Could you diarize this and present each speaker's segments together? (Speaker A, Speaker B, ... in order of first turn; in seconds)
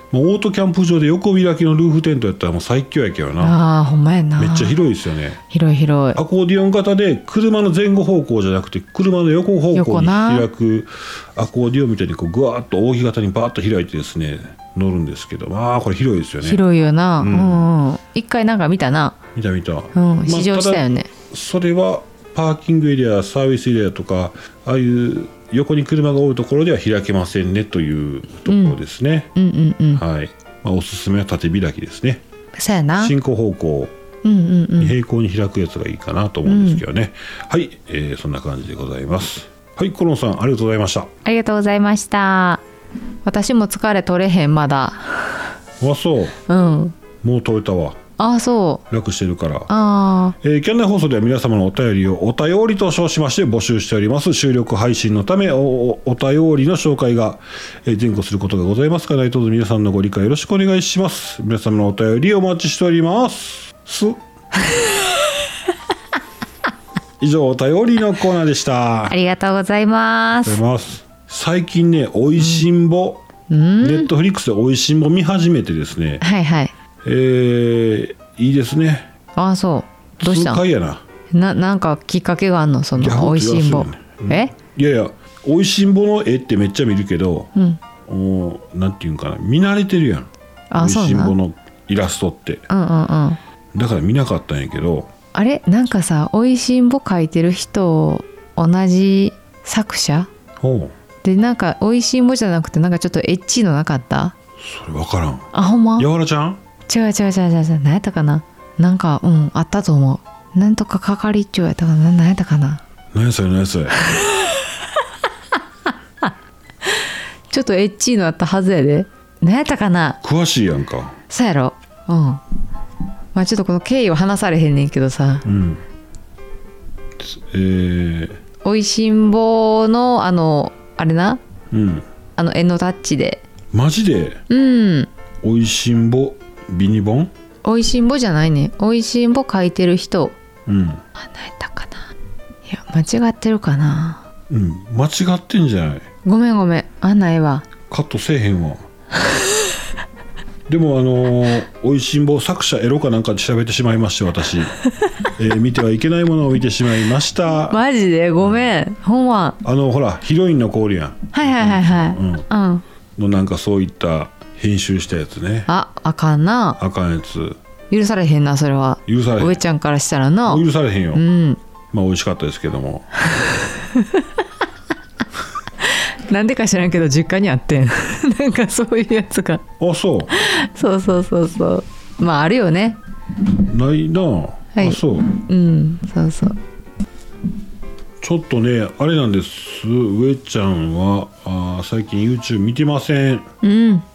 Speaker A: 0.1-3.6, 4.4-5.4, 6.1-16.6, 17.2-17.6, 19.3-29.3, 29.9-32.2, 33.0-33.9, 34.8-41.1, 45.8-46.4, 47.2-48.0, 48.9-49.7, 50.4-64.2, 67.2-69.2, 70.4-73.2, 73.8-76.2, 77.0-79.1, 80.2-81.0, 83.0-87.5, 88.1-92.6, 93.7-95.1, 100.6-100.9, 104.6-106.6, 113.1-114.0, 120.2-121.2, 125.4-125.8, 127.2-128.4, 131.7-132.0, 133.7-134.4, 135.4-137.3, 140.7-141.0, 144.5-146.1, 147.9-148.8, 150.7-154.7, 155.3-157.8, 158.4-158.7, 159.6-162.4, 163.2-165.7, 166.8-167.6, 169.1-169.6, 170.5-171.2, 171.9-173.1, 179.8-180.3, 183.6-185.4, 188.2-193.4
Speaker B: 3.4-4.8, 5.5-6.2, 9.7-10.5, 16.4-19.2, 19.9-21.1, 28.4-28.8, 29.3-30.0, 32.5-33.1, 34.2-35.0, 36.4-36.8, 41.2-42.6, 43.2-45.4, 46.5-47.0, 48.2-48.8, 49.7-50.4, 69.1-70.6, 72.4-72.6, 73.5-74.1, 76.2-76.7, 79.3-80.6, 81.3-84.5, 87.5-87.8, 90.7-91.3, 92.7-93.4, 95.3-100.3, 101.2-104.3, 105.5-106.1, 106.9-112.8, 114.1-114.6, 117.5-120.2, 121.3-122.4, 123.3-125.5, 128.6-131.4, 132.3-133.4, 134.5-135.1, 137.6-140.3, 141.2-142.1, 142.7-144.2, 146.2-147.7, 157.5-159.6, 161.3-162.8, 165.7-166.8, 167.9-171.6, 173.6-174.3, 175.8-179.6, 180.3-183.0, 184.7-186.6, 193.6-194.0